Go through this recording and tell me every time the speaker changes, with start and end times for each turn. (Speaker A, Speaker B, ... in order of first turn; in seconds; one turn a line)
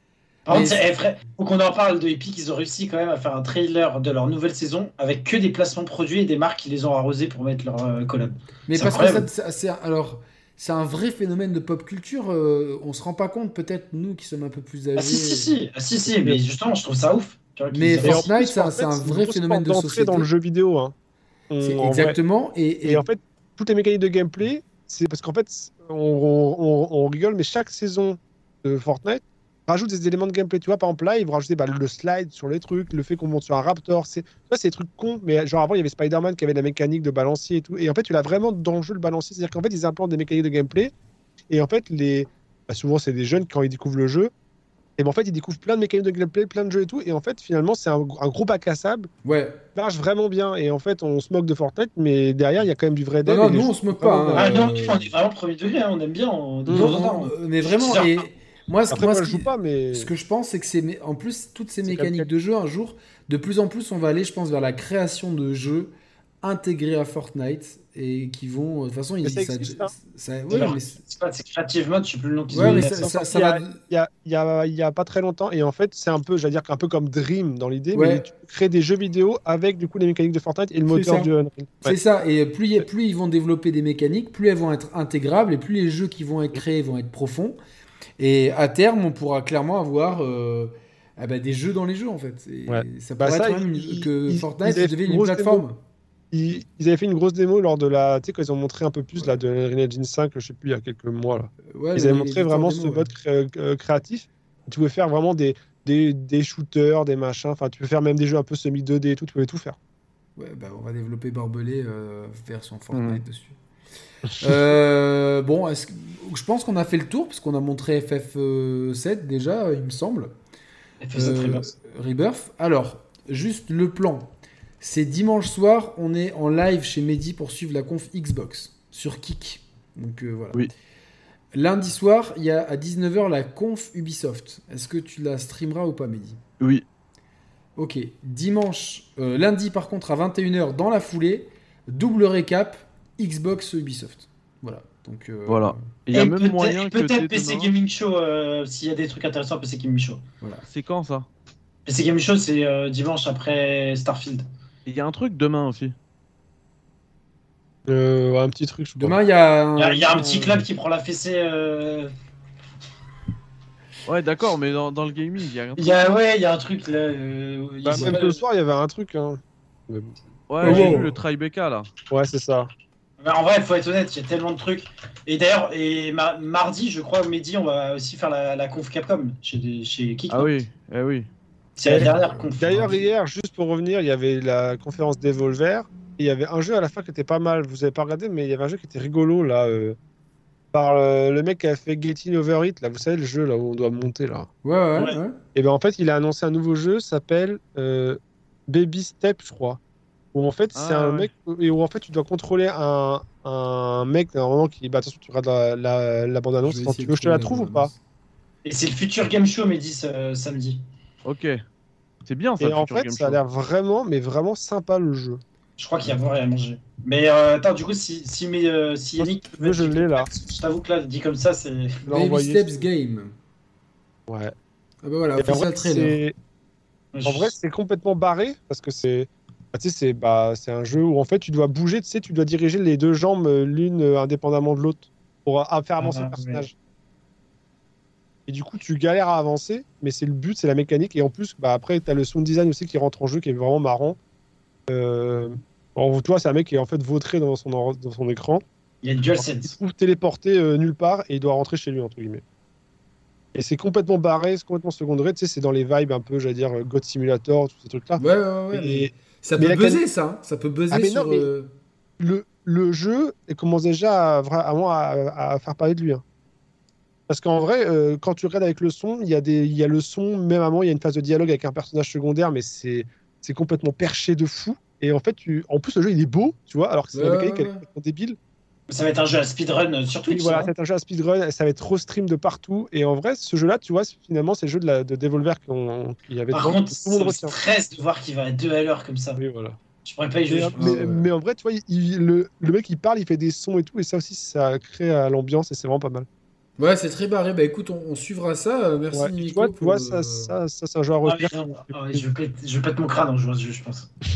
Speaker A: 0.5-9.3
Speaker B: 0.5-0.8
Speaker B: 8.7-15.5
Speaker A: 15.0-18.2
Speaker B: 17.7-20.3
Speaker C: 18.0-20.9
Speaker C: 21.5-22.2
Speaker B: 21.6-23.1
Speaker C: 22.8-40.9
Speaker C: 41.5-44.3
Speaker C: 45.0-49.1
Speaker B: 49.2-49.6
Speaker C: 49.8-54.7
Speaker B: 53.2-55.1
Speaker A: 54.3-58.2
Speaker C: 56.7-57.0
Speaker B: 56.7-71.0
Speaker C: 58.9-60.1
Speaker C: 61.9-62.3
Speaker C: 69.2-69.9
Speaker A: 70.5-73.1
Speaker B: 72.5-73.8
Speaker C: 72.5-82.0
Speaker B: 77.9-78.3
Speaker B: 80.9-81.3
Speaker B: 81.8-87.6
Speaker B: 88.2-95.8
Speaker C: 92.7-95.6
Speaker C: 96.3-109.8
Speaker B: 101.7-103.1
Speaker B: 110.4-113.6
Speaker D: 112.9-113.2
Speaker C: 114.3-114.6
Speaker B: 114.4-120.3
Speaker A: 121.0-121.7
Speaker B: 121.1-130.7
Speaker B: 131.5-136.4
Speaker B: 137.8-145.9
Speaker D: 145.5-147.7
Speaker A: 146.1-150.2
Speaker B: 150.4-150.7
Speaker D: 150.7-151.3
Speaker A: 151.8-154.4
Speaker D: 154.8-155.9
Speaker C: 157.9-159.2
Speaker B: 159.0-160.7
Speaker A: 159.8-162.1
Speaker D: 164.1-165.8
Speaker A: 165.8-168.4
Speaker C: 167.8-171.0
Speaker D: 170.5-171.9
Speaker B: 170.6-171.2
Speaker C: 172.1-172.7
Speaker A: 173.2-180.5
Speaker D: 180.3-181.3
Speaker A: 181.8-183.0
Speaker C: 181.8-189.9
Speaker B: 181.9-182.5
Speaker C: 190.7-194.5
Speaker B: 194.6-195.4
Speaker C: 195.5-199.8
Speaker C: 200.3-207.9
Speaker D: 200.7-201.3
Speaker B: 206.6-208.0
Speaker A: 208.6-210.8
Speaker D: 211.2-211.6
Speaker D: 212.2-213.4
Speaker C: 212.6-215.4
Speaker A: 215.8-222.0
Speaker C: 219.2-220.3
Speaker C: 222.0-222.8
Speaker B: 222.1-223.3
Speaker C: 224.3-224.5
Speaker B: 225.0-226.2
Speaker C: 225.4-226.3
Speaker A: 227.1-227.5
Speaker C: 227.2-236.7
Speaker A: 236.0-236.6
Speaker C: 238.5-244.2
Speaker C: 244.9-248.6
Speaker A: 249.0-249.7
Speaker C: 249.4-252.4
Speaker C: 253.5-260.0
Speaker B: 258.2-261.7
Speaker C: 260.9-261.5
Speaker C: 262.2-266.2
Speaker C: 267.3-278.4
Speaker B: 277.1-277.8
Speaker A: 278.9-280.7
Speaker C: 280.3-287.5
Speaker A: 286.5-289.4
Speaker C: 289.4-289.8
Speaker A: 290.0-291.0
Speaker C: 290.5-296.3
Speaker B: 290.8-291.3
Speaker B: 296.8-300.6
Speaker C: 299.1-302.2
Speaker A: 301.2-304.1